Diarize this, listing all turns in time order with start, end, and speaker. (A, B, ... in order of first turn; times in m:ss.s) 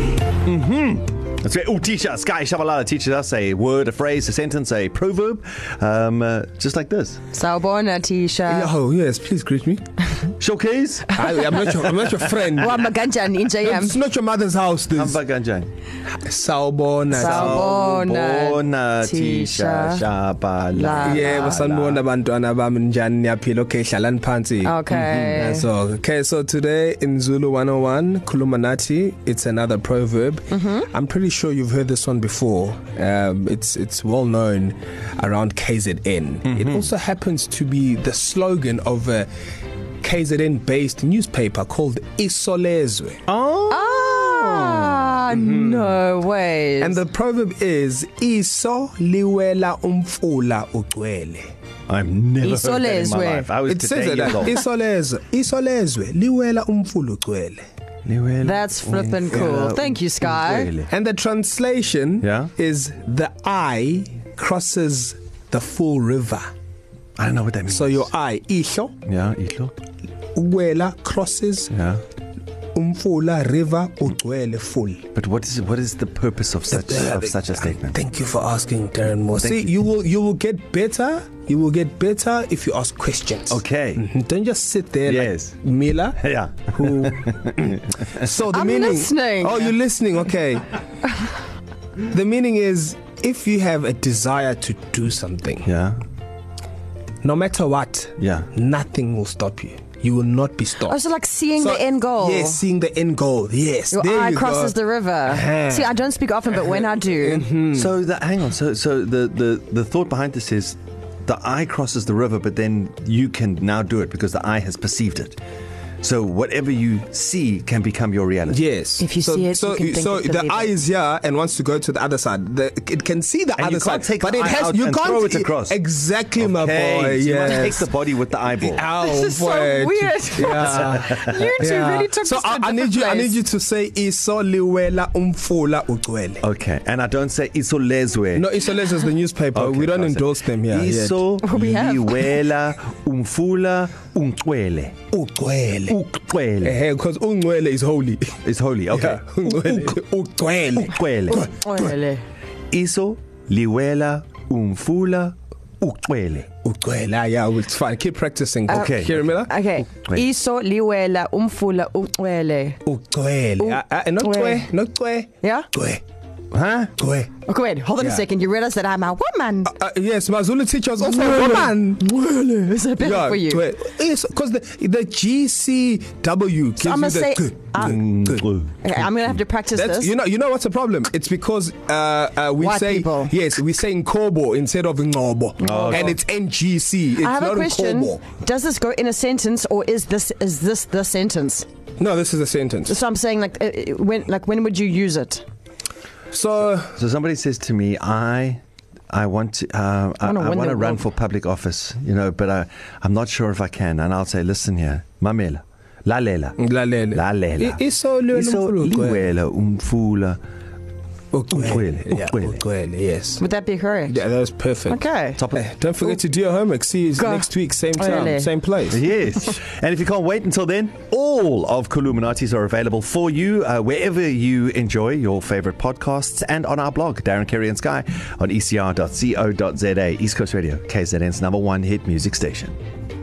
0:00.4-0:07.2 A
0:07.3-0:08.7 B
0:08.5-0:09.8 C
0:10.4-0:11.1 A
0:11.1-0:12.8 C
0:11.1-0:11.9 B
0:11.9-0:12.5 A
0:12.5-0:14.0 B
0:13.6-0:15.2 C
0:14.9-0:15.7 A
0:16.1-0:17.7 C
0:17.1-0:22.0 A
0:17.1-0:20.0 B
0:20.8-0:21.6 B
0:21.0-0:39.3 C
0:24.6-0:25.7 B
0:30.5-0:30.9 B
0:36.4-0:36.9 A
0:40.0-0:43.2 C
0:43.3-0:45.8 A
0:43.7-0:47.0 B
0:46.8-0:51.5 C
0:51.9-0:54.6 A
0:52.4-0:53.5 B
0:53.6-0:57.6 C
0:58.0-1:00.9 A
0:58.4-1:00.7 B
0:59.3-0:59.7 C
1:00.8-1:06.5 C
1:02.2-1:02.5 A
1:07.2-1:08.1 A
1:07.7-1:09.0 C
1:09.0-1:09.7 A
1:10.3-1:11.7 C
1:11.7-1:12.0 A
1:12.7-1:15.1 C
1:15.2-1:18.0 A
1:16.7-1:30.8 C
1:19.4-1:19.7 A
1:23.5-1:24.1 A
1:25.1-1:25.6 A
1:26.2-1:28.2 A
1:28.5-1:29.8 B
1:32.1-1:35.7 C
1:35.6-1:36.0 A
1:37.2-1:41.0 C
1:38.2-1:38.5 A
1:40.8-1:42.6 B
1:41.6-1:45.9 C
1:43.9-1:47.5 B
1:47.2-1:47.9 C
1:47.7-1:55.4 A
1:56.0-1:58.6 A
1:58.5-2:07.9 C
1:59.0-2:00.8 B
2:03.6-2:05.8 A
2:06.4-2:08.9 A
2:08.6-2:16.4 C
2:08.9-2:13.4 B
2:10.4-2:11.4 A
2:16.4-2:18.5 A
2:18.3-2:21.4 C
2:19.5-2:25.0 A
2:21.4-2:22.4 B
2:25.1-2:26.0 C
2:25.9-2:26.8 A
2:26.6-2:31.9 C
2:28.4-2:30.0 A
2:30.8-2:31.5 A
2:31.3-2:32.2 B
2:32.7-2:36.5 A
2:36.6-2:39.5 C
2:38.7-2:39.3 A
2:38.7-2:42.8 B
2:42.8-2:46.0 C
2:43.6-2:44.7 B
2:45.4-2:45.7 B
2:46.5-2:46.9 A
2:47.0-2:47.3 C
2:47.4-2:49.7 B
2:49.6-2:52.2 C
2:51.0-2:53.7 B
2:53.0-2:58.5 C
2:56.8-2:58.0 B
2:57.8-2:58.8 A
2:58.8-3:00.1 B
2:59.7-3:08.2 C
3:02.6-3:03.3 B
3:05.6-3:06.2 B
3:05.6-3:06.2 A
3:07.2-3:11.7 B
3:12.0-3:13.0 C
3:12.8-3:15.4 B
3:16.3-3:17.0 C
3:16.8-3:26.6 A
3:20.2-3:21.0 B
3:26.6-3:29.3 C
3:27.1-3:30.4 A
3:31.3-3:33.4 C
3:31.5-3:32.6 A
3:33.4-3:34.2 B
3:34.1-3:39.0 C
3:34.8-3:35.4 B
3:35.4-3:35.6 A
3:37.2-3:38.5 B
3:38.9-3:52.8 A